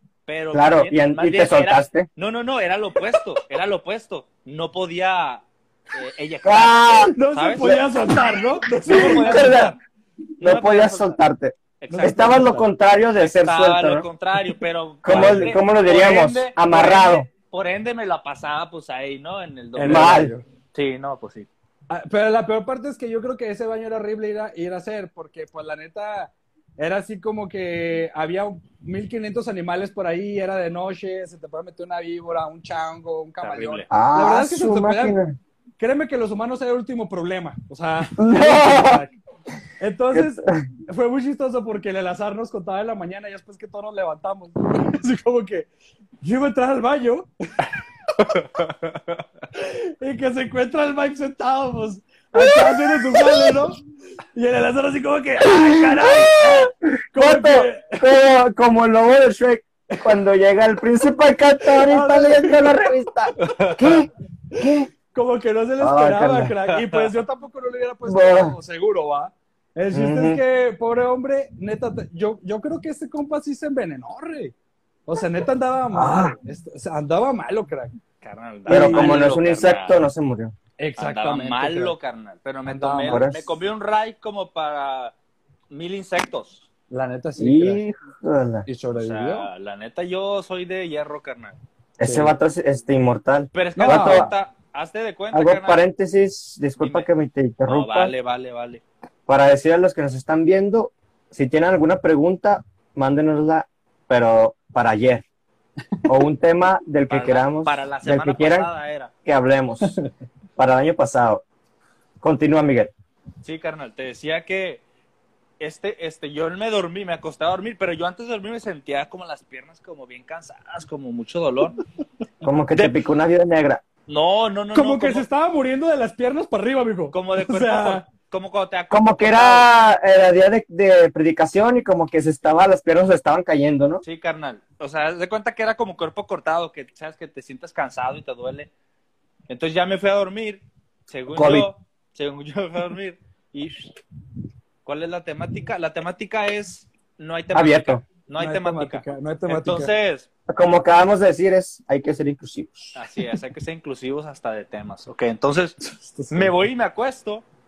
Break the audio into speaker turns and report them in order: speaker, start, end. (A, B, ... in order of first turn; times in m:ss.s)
0:00.3-0:08.0 A
0:00.5-0:02.1 B
0:06.4-0:08.2 B
0:07.1-0:09.7 C
0:08.8-0:09.7 A
0:08.8-0:09.7 B
0:10.4-0:14.0 B
0:10.4-0:11.2 A
0:11.8-0:12.5 A
0:11.9-0:12.7 C
0:13.2-0:20.2 A
0:15.0-0:17.3 B
0:19.7-0:20.4 C
0:19.8-0:20.3 B
0:20.7-0:21.5 A
0:21.9-0:35.2 C
0:33.4-0:33.9 A
0:33.9-0:35.4 B
0:35.8-0:39.2 C
0:38.2-0:39.0 B
0:39.8-0:45.7 C
0:40.1-0:40.5 B
0:46.2-0:47.3 C
0:48.2-0:48.7 A
0:49.5-0:53.8 C
0:52.3-0:53.5 B
0:54.3-0:58.1 C
0:55.6-1:04.9 B
1:01.7-1:02.8 C
1:03.4-1:04.0 A
1:04.5-1:14.5 C
1:05.8-1:06.6 B
1:06.7-1:07.0 A
1:08.0-1:08.5 B
1:09.9-1:10.4 B
1:15.1-1:17.9 C
1:15.9-1:16.3 B
1:18.2-1:20.0 A
1:18.6-1:19.2 C
1:18.7-1:20.5 B
1:20.8-1:21.9 C
1:21.0-1:25.1 A
1:22.6-1:23.3 C
1:23.1-1:23.4 B
1:25.7-1:26.6 A
1:26.9-1:27.8 C
1:27.4-1:28.6 B
1:28.6-1:29.5 C
1:28.9-1:31.6 A
1:32.0-1:34.3 B
1:32.0-1:32.4 C
1:33.5-1:35.8 A
1:33.8-1:34.3 C
1:35.3-1:38.1 B
1:36.8-1:37.1 A
1:37.6-1:38.8 A
1:39.3-1:45.2 B
1:46.1-1:48.7 B
1:47.1-1:49.1 A
1:49.2-1:50.0 B
1:50.6-1:51.4 B
1:52.2-1:52.9 B
1:53.4-1:54.8 A
1:55.6-2:01.8 A
2:02.4-2:03.8 B
2:02.7-2:03.0 A
2:04.1-2:05.2 A
2:04.7-2:08.1 C
2:07.1-2:09.7 A
2:08.9-2:14.0 B
2:14.0-2:18.7 A
2:19.5-2:23.9 A
2:21.3-2:21.7 B
2:24.8-2:30.2 A
2:27.5-2:28.0 B
2:28.4-2:29.9 C
2:30.5-2:33.0 B
2:33.0-2:35.8 A
2:35.8-2:36.5 C
2:36.3-2:37.4 A